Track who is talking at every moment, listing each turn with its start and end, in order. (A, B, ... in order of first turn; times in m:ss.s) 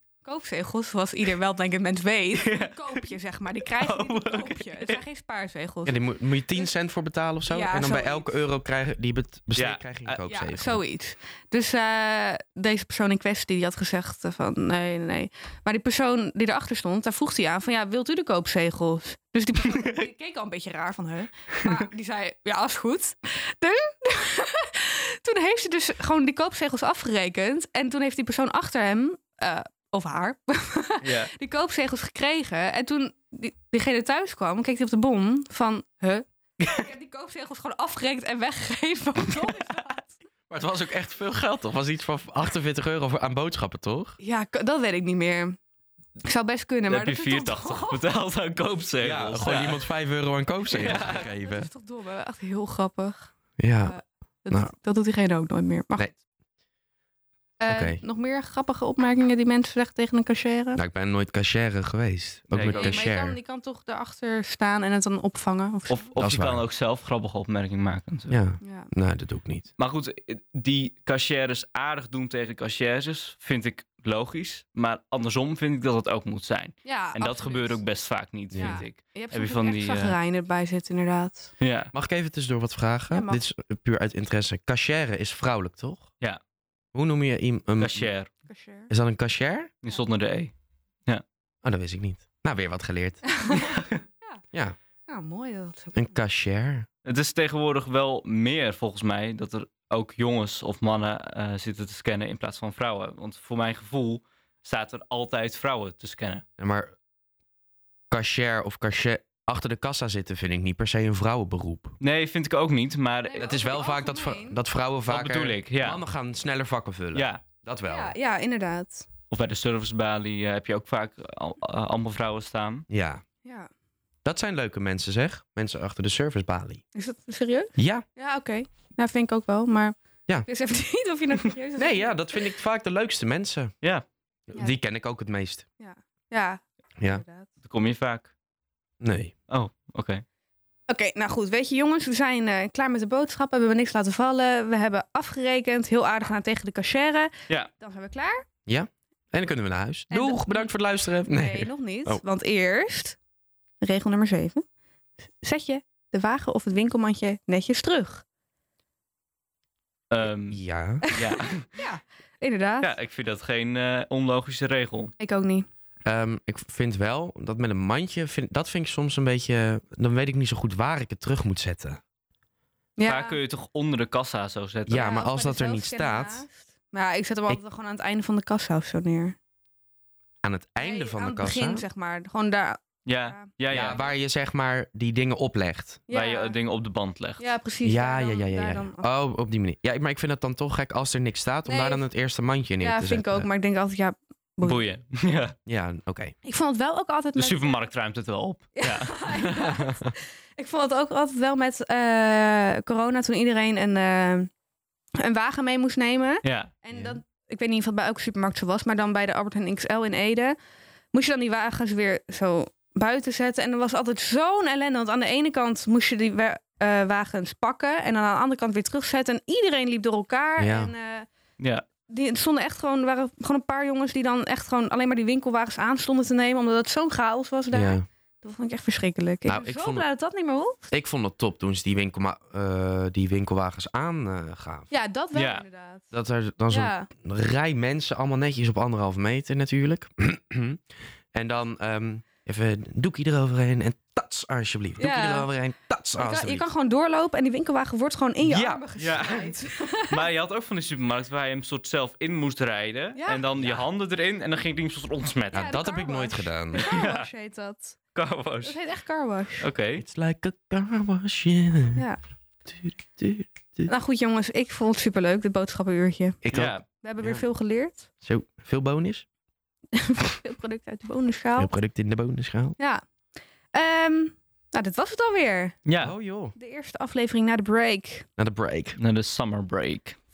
0:00.2-0:06.0 A
0:02.4-0:03.0 B
0:03.6-0:05.0 B
0:05.9-0:10.8 C
0:07.5-0:08.3 A
0:09.6-0:10.2 B
0:10.3-0:40.1 A
0:19.7-0:20.0 B
0:21.6-0:21.8 B
0:31.0-0:31.3 B
0:40.5-0:44.2 C
0:44.2-0:45.6 A
0:46.2-0:48.0 A
0:46.9-0:49.8 B
0:49.0-0:51.7 C
0:50.7-0:51.3 B
0:50.8-0:53.3 A
0:53.6-0:54.0 C
0:53.8-0:56.1 A
0:57.6-1:00.8 A
0:57.7-0:58.0 C
1:00.8-1:03.4 C
1:02.5-1:03.1 B
1:02.6-1:06.1 A
1:05.9-1:08.4 B
1:06.2-1:06.6 C
1:08.3-1:09.7 C
1:08.6-1:08.9 A
1:09.8-1:20.2 B
1:16.8-1:17.8 A
1:18.5-1:18.8 C
1:18.6-1:21.5 A
1:21.6-1:21.9 B
1:21.9-1:26.1 C
1:23.1-1:23.4 A
1:26.9-1:28.1 C
1:27.8-1:28.3 B
1:28.5-1:28.9 A
1:28.9-1:29.7 C
1:29.8-1:30.5 B
1:31.6-1:33.2 C
1:33.3-1:34.4 A
1:33.6-1:34.0 B
1:35.1-1:36.2 A
1:35.9-1:36.9 C
1:37.0-1:46.4 B
1:46.6-1:46.9 C
1:48.1-1:52.0 C
1:52.0-1:53.6 B
1:53.3-1:54.6 A
1:53.4-1:58.1 C
1:55.1-1:56.0 B
1:57.1-1:57.4 B
1:57.9-1:59.1 A
1:59.3-2:02.9 B
2:02.9-2:03.2 C
2:03.4-2:03.7 A
2:04.2-2:06.8 C
2:06.9-2:09.9 A
2:07.8-2:08.0 C
2:10.5-2:12.2 A
2:11.8-2:13.7 C
2:14.5-2:15.6 C
2:15.8-2:17.5 A
2:17.6-2:18.3 B
2:19.0-2:19.3 C
2:19.5-2:20.2 B
2:20.9-2:28.4 A
2:28.7-2:32.2 C
2:30.1-2:30.7 A
2:31.3-2:33.2 A
2:33.8-2:34.6 A
2:35.4-2:38.2 A
2:40.1-2:41.7 B
2:40.5-2:41.1 C
2:41.1-2:42.9 A
2:42.8-2:45.1 B
2:45.2-2:45.6 A
2:46.1-2:52.0 C
2:53.0-2:53.4 A
2:53.0-2:55.1 B
2:54.9-2:56.4 C
2:54.9-2:59.4 A
3:00.4-3:01.8 C
3:00.8-3:04.1 A
3:03.1-3:04.0 B
3:03.7-3:06.0 C
3:06.1-3:06.5 A
3:06.1-3:07.5 B
3:07.4-3:09.1 A
3:07.8-3:13.5 C
3:11.6-3:12.0 A
3:12.8-3:14.8 A
3:14.6-3:15.6 B
3:15.6-3:16.4 C
3:16.4-3:17.8 A
3:17.4-3:19.2 B
3:18.8-3:24.5 A
3:19.3-3:20.1 C
3:25.2-3:30.6 A
3:26.4-3:26.7 B
3:26.9-3:27.2 C
3:31.1-3:41.3 A
3:40.6-3:40.9 C
3:41.6-3:41.8 B
3:42.1-3:50.9 A
3:47.7-3:48.1 C
3:49.4-3:50.1 C
3:50.9-3:54.9 C
3:54.9-3:56.1 A
3:55.3-3:55.6 B
3:56.1-4:00.8 C
3:56.7-3:57.1 A
4:01.3-4:06.7 C
4:05.0-4:05.5 A
4:06.2-4:10.2 A
4:08.4-4:08.8 C
4:09.0-4:15.8 B
4:13.1-4:13.5 A
4:13.6-4:13.8 C
4:15.5-4:18.0 A
4:15.5-4:16.9 C
4:16.7-4:17.3 B
4:18.1-4:18.8 B
4:18.6-4:19.7 A
4:19.6-4:20.0 B
4:19.9-4:22.0 C
4:22.7-4:23.9 C
4:23.9-4:26.4 A
4:26.4-4:27.4 C
4:26.5-4:26.8 B
4:27.0-4:28.1 A
4:28.2-4:29.2 C
4:29.9-4:31.7 A
4:31.6-4:32.8 C
4:33.7-4:35.8 A
4:35.9-4:36.1 B
4:36.0-4:36.5 C
4:36.6-4:38.3 A
4:38.4-4:39.0 C
4:39.0-4:40.2 B